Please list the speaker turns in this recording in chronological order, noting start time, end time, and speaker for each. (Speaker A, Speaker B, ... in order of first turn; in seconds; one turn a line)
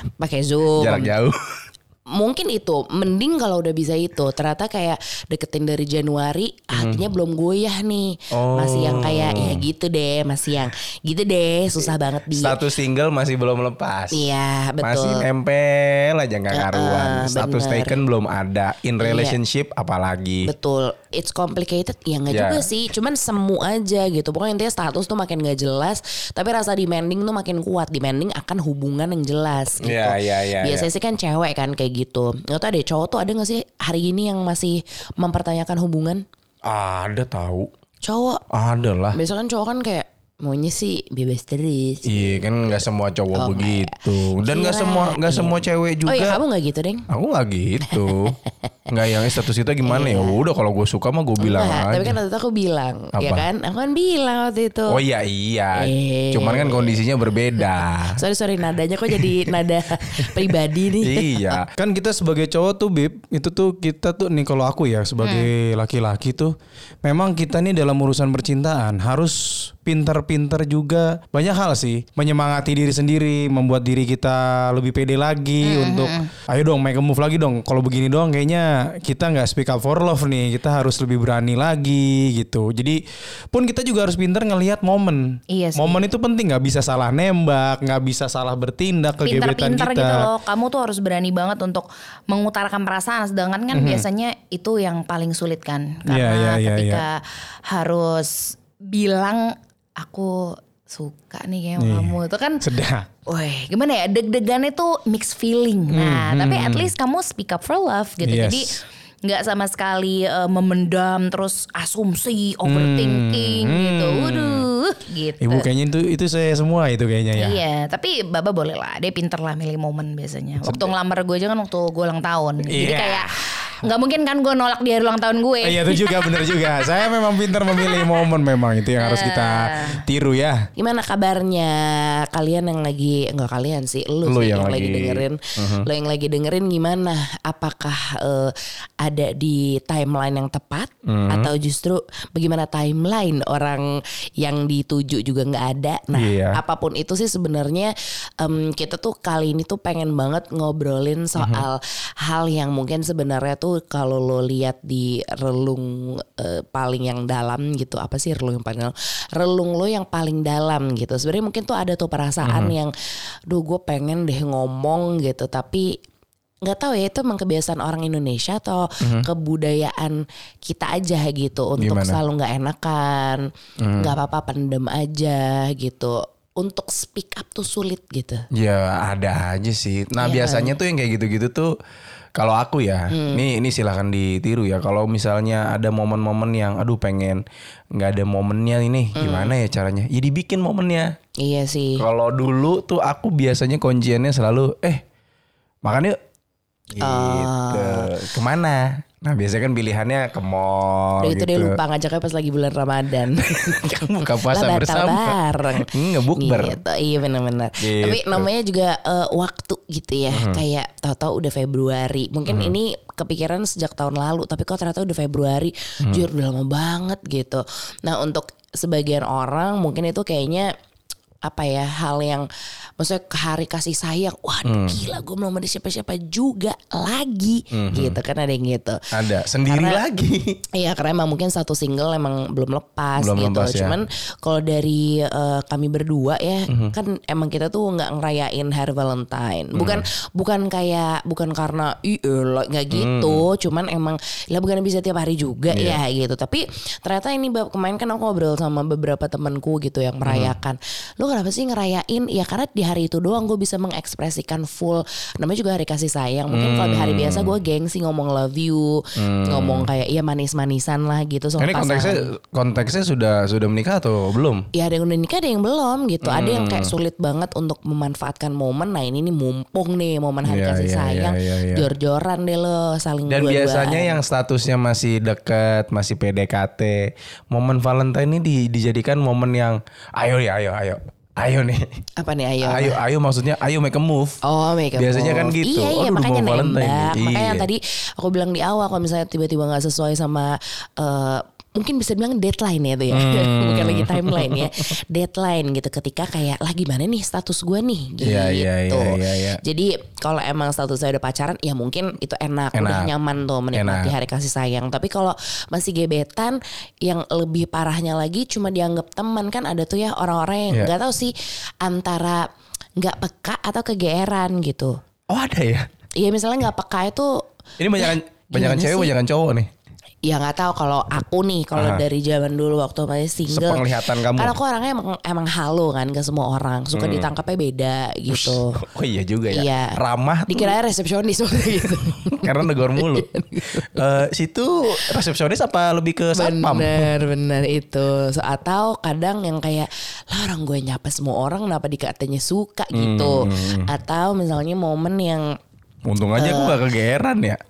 Speaker A: 0.2-1.1
Speaker B: 0.8-1.6
Speaker A: 2.1-12.6
Speaker B: 6.7-7.0
Speaker B: 8.3-9.6
Speaker B: 11.9-14.3
Speaker A: 14.1-15.2
Speaker B: 14.8-20.5
Speaker A: 16.5-18.0
Speaker A: 19.0-19.4
Speaker A: 20.4-36.2
Speaker B: 22.3-22.7
Speaker B: 29.8-30.9
Speaker B: 36.6-37.7
Speaker A: 38.0-38.4
Speaker B: 38.5-39.2
Speaker A: 39.1-42.8
Speaker B: 42.1-46.4
Speaker A: 43.3-47.1
Speaker B: 47.1-48.4
Speaker A: 47.9-48.3
Speaker B: 48.9-52.2
Speaker A: 49.8-50.4
Speaker A: 51.4-55.0
Speaker B: 53.2-53.5
Speaker B: 54.9-58.2
Speaker A: 55.8-57.0
Speaker A: 58.2-61.6
Speaker B: 59.1-59.5
Speaker B: 60.0-61.7
Speaker C: 61.8-83.0
Speaker D: 65.2-65.5
Speaker D: 75.6-76.3
Speaker C: 83.5-90.3
Speaker D: 85.5-86.0
Speaker D: 89.2-102.6
Speaker C: 93.7-94.0
Speaker C: 96.1-97.0
Speaker C: 101.8-103.1
Speaker D: 103.3-115.7
Speaker C: 105.9-106.9
Speaker C: 108.2-108.7
Speaker C: 112.7-114.7
Speaker C: 115.4-117.6
Speaker D: 117.3-127.0
Speaker C: 120.6-120.9
Speaker C: 122.7-123.7
Speaker C: 125.6-130.7
Speaker D: 127.7-128.3
Speaker D: 129.0-130.0
Speaker A: 130.8-162.9
Speaker B: 134.2-135.9
Speaker B: 141.1-141.5
Speaker B: 146.1-146.6
Speaker B: 151.4-151.6
Speaker B: 162.4-162.7
Speaker A: 163.5-166.0
Speaker A: 166.7-178.5
Speaker B: 169.0-169.3
Speaker B: 171.8-172.2
Speaker B: 173.8-174.1
Speaker B: 178.5-181.7
Speaker A: 180.2-180.7
Speaker B: 182.4-187.4
Speaker A: 183.1-183.4
Speaker B: 187.9-191.2
Speaker A: 189.2-189.5
Speaker A: 191.4-192.0
Speaker B: 192.0-195.0
Speaker B: 195.8-196.2
Speaker B: 196.9-201.8
Speaker A: 197.0-198.1
Speaker A: 201.2-220.7
Speaker B: 203.4-206.8
Speaker B: 207.8-208.5
Speaker B: 210.3-210.6
Speaker B: 212.5-212.7
Speaker A: 221.4-222.5
Speaker A: 223.0-229.0
Speaker B: 224.7-225.0
Speaker B: 227.7-228.2
Speaker B: 229.1-230.6
Speaker A: 229.6-230.0
Speaker A: 230.7-262.2
Speaker B: 233.2-234.0
Speaker B: 236.7-236.9
Speaker B: 239.8-240.0
Speaker B: 242.9-243.4
Speaker B: 245.7-246.0
Speaker B: 250.2-250.6
Speaker B: 256.5-257.6
Speaker B: 259.2-259.9
Speaker B: 261.6-264.7
Speaker A: 264.7-274.2
Speaker B: 266.2-266.9
Speaker B: 270.5-271.9
Speaker B: 273.3-282.0
Speaker A: 282.2-283.0
Speaker B: 282.6-284.4
Speaker A: 284.4-315.0
Speaker B: 284.9-287.7
Speaker B: 293.1-294.9
Speaker B: 298.2-299.6
Speaker B: 302.7-303.1
Speaker B: 303.7-304.1
Speaker B: 315.3-315.9
Speaker A: 316.2-317.4
Speaker B: 317.8-319.7
Speaker A: 318.0-319.1
Speaker A: 320.2-328.8
Speaker B: 321.8-322.0
Speaker B: 323.5-324.6
Speaker B: 326.9-327.3
Speaker B: 328.3-330.7
Speaker A: 329.5-333.9
Speaker B: 332.4-337.1
Speaker A: 336.4-345.6
Speaker B: 342.9-343.9
Speaker B: 346.1-347.6
Speaker A: 346.4-346.8